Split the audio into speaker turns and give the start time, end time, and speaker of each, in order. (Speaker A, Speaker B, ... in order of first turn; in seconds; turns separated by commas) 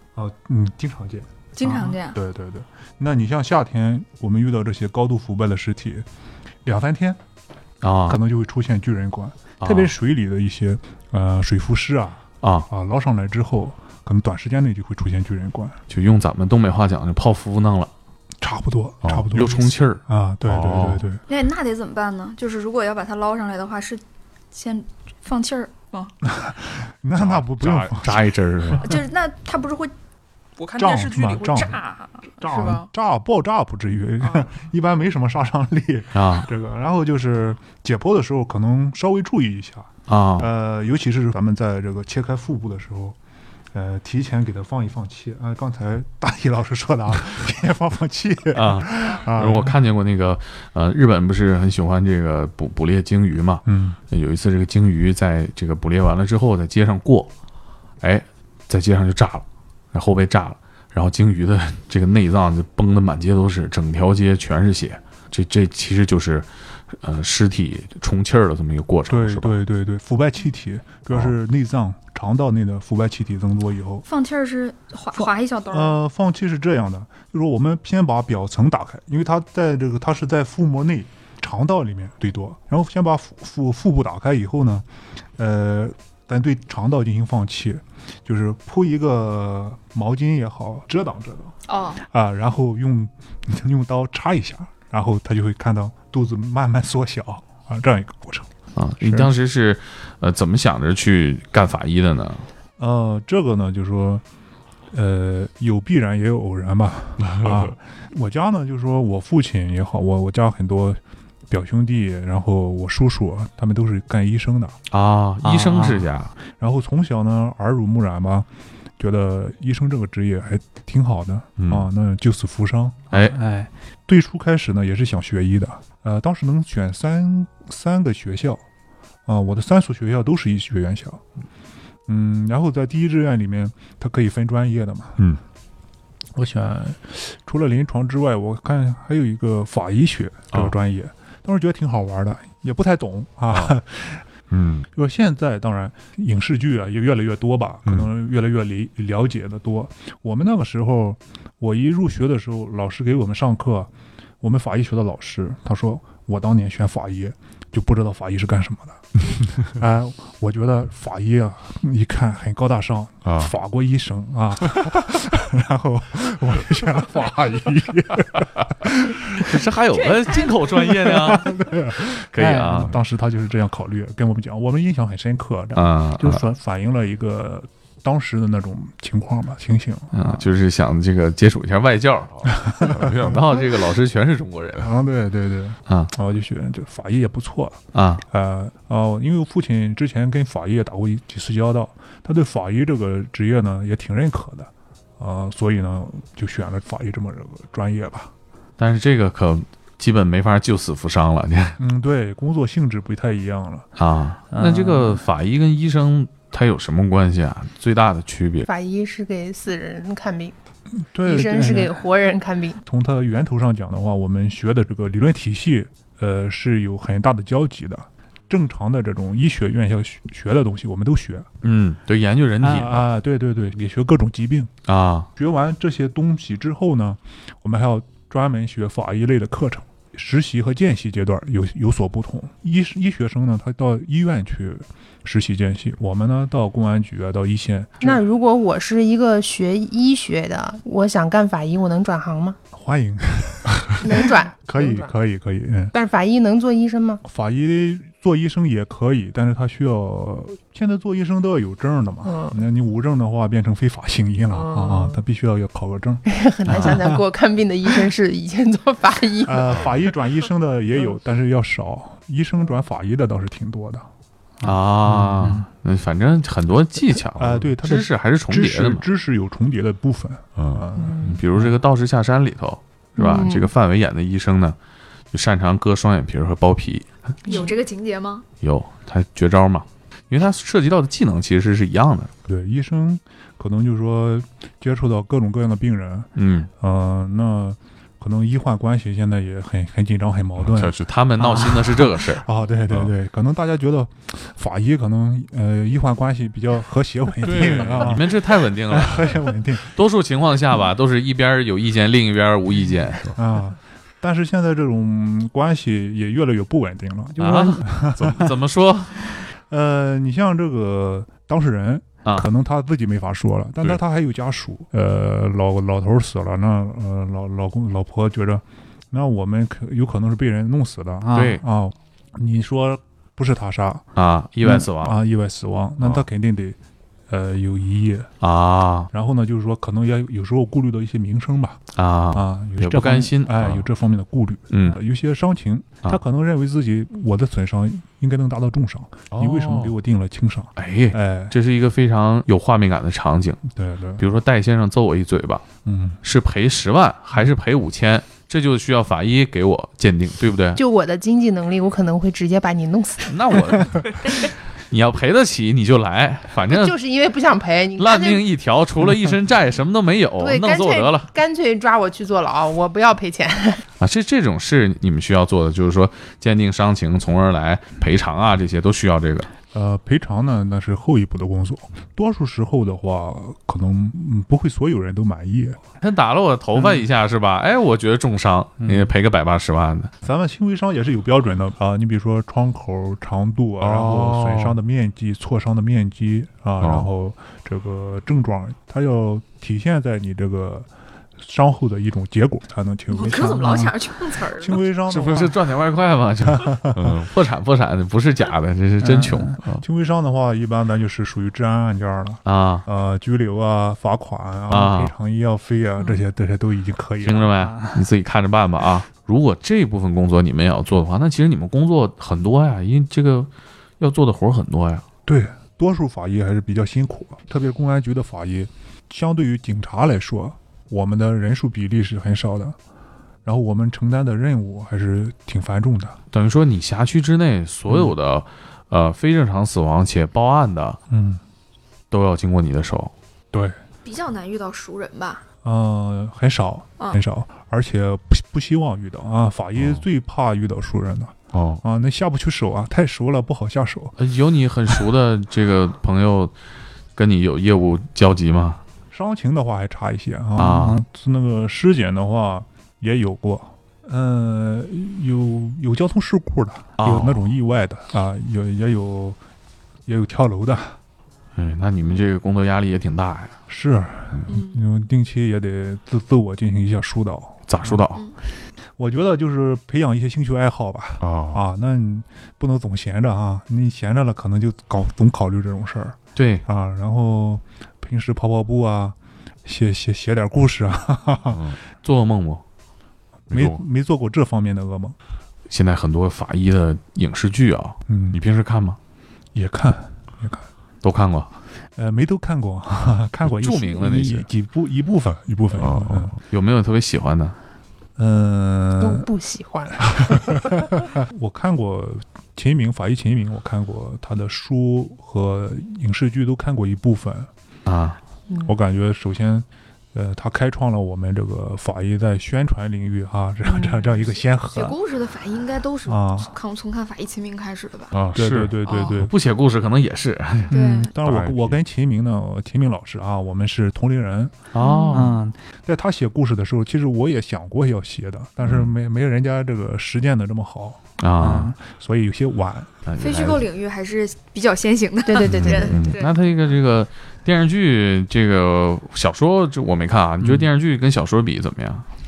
Speaker A: 0.1-6.0, Speaker B: 1.6-2.2, Speaker A: 6.6-7.2, Speaker C: 7.8-8.2, Speaker A: 8.1-15.8, Speaker C: 9.6-9.9, Speaker C: 12.4-12.7, Speaker C: 15.9-17.9, Speaker A: 18.4-21.2, Speaker C: 19.0-21.0, Speaker B: 21.3-24.0, Speaker B: 24.5-26.1, Speaker A: 26.2-28.9, Speaker C: 27.1-28.9, Speaker B: 28.8-29.9, Speaker B: 30.6-32.9, Speaker A: 30.7-31.8, Speaker A: 32.4-43.2, Speaker B: 34.2-34.5, Speaker C: 36.1-36.5, Speaker C: 40.1-40.5, Speaker A: 43.7-49.8, Speaker C: 48.5-57.3, Speaker A: 53.6-54.0, Speaker C: 58.0-66.5, Speaker C: 67.0-69.6, Speaker A: 69.1-74.0, Speaker B: 74.0-76.0, Speaker A: 75.1-98.5, Speaker B: 91.7-92.0, Speaker C: 98.8-102.4, Speaker A: 99.0-99.3, Speaker A: 102.8-104.2, Speaker A: 104.9-114.8, Speaker C: 107.3-107.7, Speaker C: 114.9-116.3, Speaker D: 115.4-116.1, Speaker A: 116.5-123.1, Speaker C: 121.6-121.9, Speaker C: 123.1-123.4, Speaker D: 123.1-123.7, Speaker A: 124.1-128.6, Speaker A: 129.2-131.2, Speaker A: 132.1-135.2, Speaker A: 136.3-144.2, Speaker C: 144.5-144.8, Speaker A: 144.9-159.0, Speaker A: 159.6-169.5, Speaker C: 169.4-172.9, Speaker A: 170.7-180.4, Speaker D: 172.3-172.9, Speaker C: 175.7-176.4, Speaker C: 180.1-184.9, Speaker A: 182.6-183.4, Speaker A: 184.8-187.8, Speaker C: 187.9-188.2, Speaker A: 188.3-198.3, Speaker C: 198.8-201.8, Speaker A: 201.8-203.9, Speaker C: 204.0-208.7, Speaker D: 204.5-205.2, Speaker E: 208.7-210.5, Speaker A: 211.0-212.0, Speaker E: 211.2-212.8, Speaker A: 212.8-221.5, Speaker C: 221.6-223.1, Speaker A: 222.6-224.7, Speaker C: 224.9-225.3, Speaker A: 225.3-238.2, Speaker E: 238.0-242.6, Speaker A: 242.7-245.9, Speaker E: 244.0-245.1, Speaker E: 245.9-247.2, Speaker A: 247.2-257.2, Speaker E: 252.2-252.6, Speaker E: 254.5-255.2, Speaker E: 256.3-259.9, Speaker A: 259.4-264.1, Speaker C: 264.6-269.0, Speaker A: 265.2-265.6, Speaker D: 265.4-265.6, Speaker A: 267.3-271.3, Speaker C: 270.6-274.8, Speaker E: 271.0-271.4, Speaker E: 273.2-273.7, Speaker C: 275.3-277.1, Speaker E: 277.4-277.7, Speaker B: 277.4-278.4, Speaker C: 278.6-282.3, Speaker A: 282.5-299.9, Speaker C: 286.4-286.7, Speaker C: 290.6-293.1, Speaker C: 297.4-303.4, Speaker A: 303.3-308.5, Speaker C: 307.4-309.1, Speaker A: 309.5-324.1, Speaker C: 321.3-321.6, Speaker C: 324.1-325.1, Speaker A: 324.6-326.8, Speaker A: 327.3-328.3, Speaker C: 328.4-329.1, Speaker A: 329.1-331.8, Speaker C: 331.9-333.9, Speaker A: 332.3-341.5, Speaker C: 334.7-335.0, Speaker C: 339.3-339.9, Speaker C: 340.8-343.6, Speaker A: 343.6-344.2, Speaker C: 344.2-345.6, Speaker A: 345.8-346.2, Speaker C: 346.2-350.8, Speaker E: 350.8-353.7, Speaker C: 353.3-356.9, Speaker E: 356.7-358.4, Speaker C: 358.0-361.3, Speaker E: 360.4-363.8, Speaker C: 364.0-369.5, Speaker A: 369.7-375.8, Speaker C: 376.0-380.1, Speaker A: 380.2-390.9, Speaker C: 383.8-384.7, Speaker C: 386.8-387.1, Speaker A: 391.4-393.8, Speaker B: 393.1-394.8, Speaker D: 393.3-393.9, Speaker A: 394.5-395.6, Speaker C: 395.1-399.8, Speaker A: 396.4-397.2, Speaker D: 399.0-399.6, Speaker A: 399.8-407.5, Speaker C: 402.4-402.8, Speaker C: 404.7-405.1, Speaker C: 407.2-413.5, Speaker D: 407.4-408.0, Speaker C: 414.0-415.0, Speaker A: 415.2-422.8, Speaker A: 423.4-426.2, Speaker C: 426.3-431.0, Speaker A: 427.9-428.1, Speaker A: 431.1-431.4, Speaker C: 432.1-433.1, Speaker B: 434.0-435.4, Speaker A: 435.6-444.2, Speaker C: 441.5-441.8, Speaker C: 444.2-446.5, Speaker C: 447.1-448.8, Speaker A: 449.1-459.4, Speaker C: 450.6-451.0, Speaker C: 457.0-457.4, Speaker A: 460.1-461.0, Speaker C: 461.6-463.5, Speaker A: 463.7-468.0, Speaker B: 464.5-464.8, Speaker C: 467.7-468.2, Speaker A: 469.0-481.6, Speaker C: 471.2-471.6, Speaker C: 476.4-476.6, Speaker C: 481.5-482.6, Speaker A: 483.5-485.1, Speaker C: 483.5-483.8, Speaker C: 485.7-489.0, Speaker A: 488.1-488.4, Speaker A: 489.5-490.7, Speaker C: 491.0-491.5, Speaker A: 491.9-496.3, Speaker C: 493.4-494.5, Speaker C: 495.7-497.6, Speaker A: 498.2-499.3, Speaker E: 499.0-500.7, Speaker A: 500.1-507.5, Speaker C: 507.9-508.2, Speaker E: 508.5-508.7, Speaker A: 508.6-515.0, Speaker E: 513.6-514.2, Speaker B: 514.7-518.1, Speaker A: 516.0-516.5, Speaker C: 518.1-521.8, Speaker A: 518.3-519.3, Speaker B: 518.9-519.2, Speaker B: 520.7-521.1, Speaker A: 520.7-524.5, Speaker C: 524.7-525.4, Speaker B: 524.8-525.3, Speaker D: 525.1-525.5, Speaker A: 525.9-532.9, Speaker C: 528.6-528.9, Speaker C: 531.2-531.7, Speaker D: 531.4-531.8, Speaker C: 533.0-533.6, Speaker B: 533.2-536.5, Speaker E: 535.2-536.0, Speaker C: 535.6-542.0